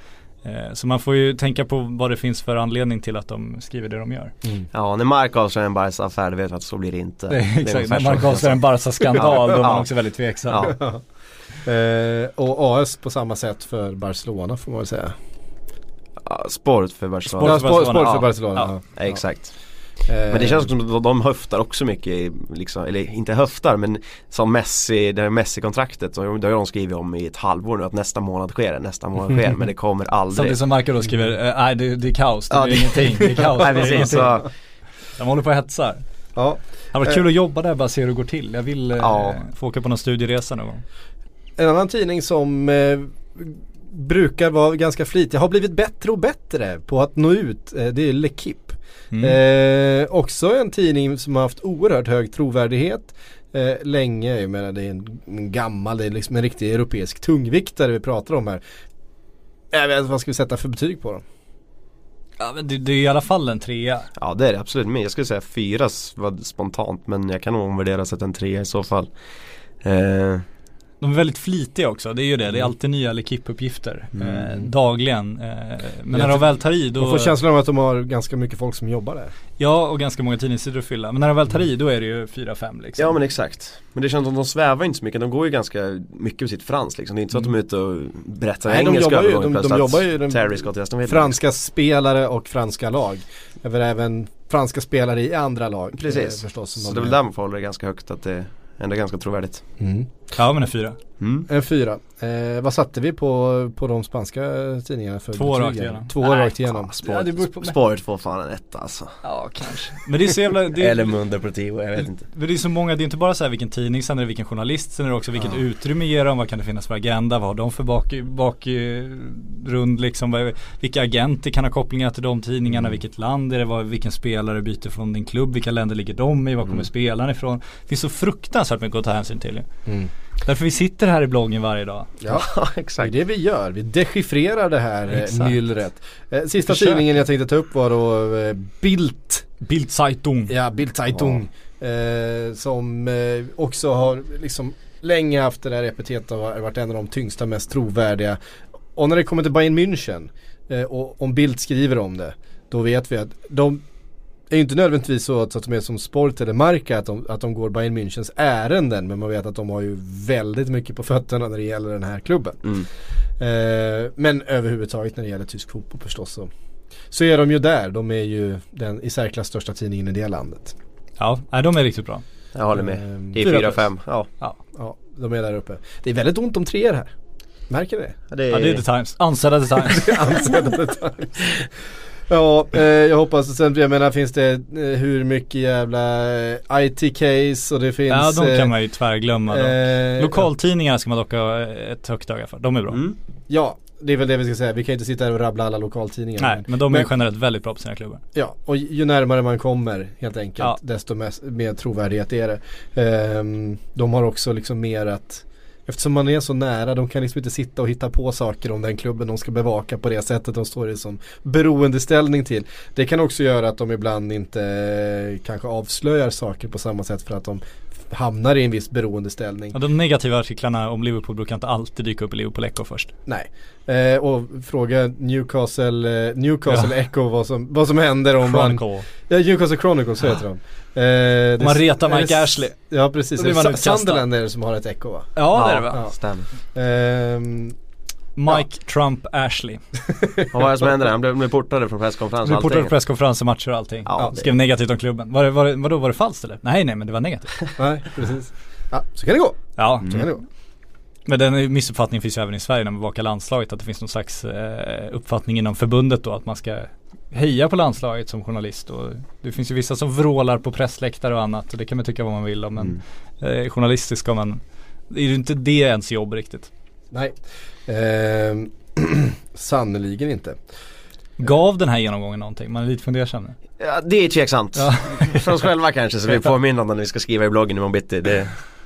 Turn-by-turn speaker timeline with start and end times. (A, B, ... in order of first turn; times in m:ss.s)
0:00.4-0:04.3 A
0:04.7-0:10.7 B
0:07.3-0:10.7 A
0:10.6-0:11.0 C
0:11.6-0:15.1 C
0:16.2-0:18.2 B
0:17.4-0:18.7 A
0:17.4-0:19.2 C
0:18.8-0:19.6 B
0:20.0-0:20.7 C
0:20.3-0:30.6 B
0:30.3-0:34.4 A
0:32.5-0:34.5 B
0:35.2-0:36.0 A
0:36.3-0:37.2 C
0:36.9-0:40.8 A
0:39.0-0:39.4 B
0:41.6-0:58.6 C
0:49.1-0:49.4 A
0:59.7-1:01.2 C
1:02.4-1:04.1 A
1:04.2-1:09.1 B
1:09.8-1:10.4 B
1:11.0-1:17.3 A
1:14.2-1:14.5 B
1:16.1-1:19.3 C
1:19.6-1:23.1 A
1:23.0-1:31.3 B
1:28.7-1:37.2 C
1:36.0-1:39.6 B
1:39.8-1:40.1 C
1:40.4-1:41.0 A
1:41.2-1:41.5 B
1:41.5-1:46.9 C
1:45.4-1:47.8 A
1:46.9-1:49.2 B
1:49.2-1:51.2 A
1:50.8-1:52.2 B
1:52.2-2:09.6 A
2:10.4-2:12.1 A
2:12.2-2:12.5 C
2:12.3-2:13.1 B
2:13.0-2:19.5 C
2:15.1-2:15.5 A
2:16.7-2:17.0 A
2:19.6-2:20.5 A
2:20.5-2:28.4 C
2:28.9-2:33.8 C
2:34.5-2:42.6 C
2:43.4-2:46.5 C
2:47.1-2:50.7 C
2:51.2-2:52.2 A
2:52.5-2:54.3 B
2:52.7-2:53.4 C
2:53.4-2:53.9 A
2:54.7-2:57.1 C
2:57.7-2:58.2 C
2:58.3-2:58.8 B
2:58.5-3:00.2 A
2:59.9-3:01.5 C
3:02.3-3:08.7 C
3:08.1-3:13.0 A
3:09.5-3:10.5 C
3:12.9-3:13.2 B
3:13.5-3:17.1 C
3:16.4-3:18.2 A
3:18.3-3:39.8 C
3:39.7-3:43.1 A
3:43.2-3:55.3 C
3:48.4-3:49.1 A
3:51.6-3:52.7 A
3:53.4-3:54.2 A
3:55.4-3:56.0 A
3:55.5-3:56.5 B
3:56.7-3:57.7 C
3:58.4-3:59.8 A
4:00.1-4:00.5 C
4:00.5-4:02.9 B
4:02.4-4:07.6 A
4:04.0-4:04.5 B
4:07.8-4:10.4 C
4:09.8-4:10.2 A
4:11.2-4:26.7 A
4:27.1-4:30.6 C
4:31.4-4:33.6 A
4:33.8-4:38.6 B
4:34.8-4:35.4 A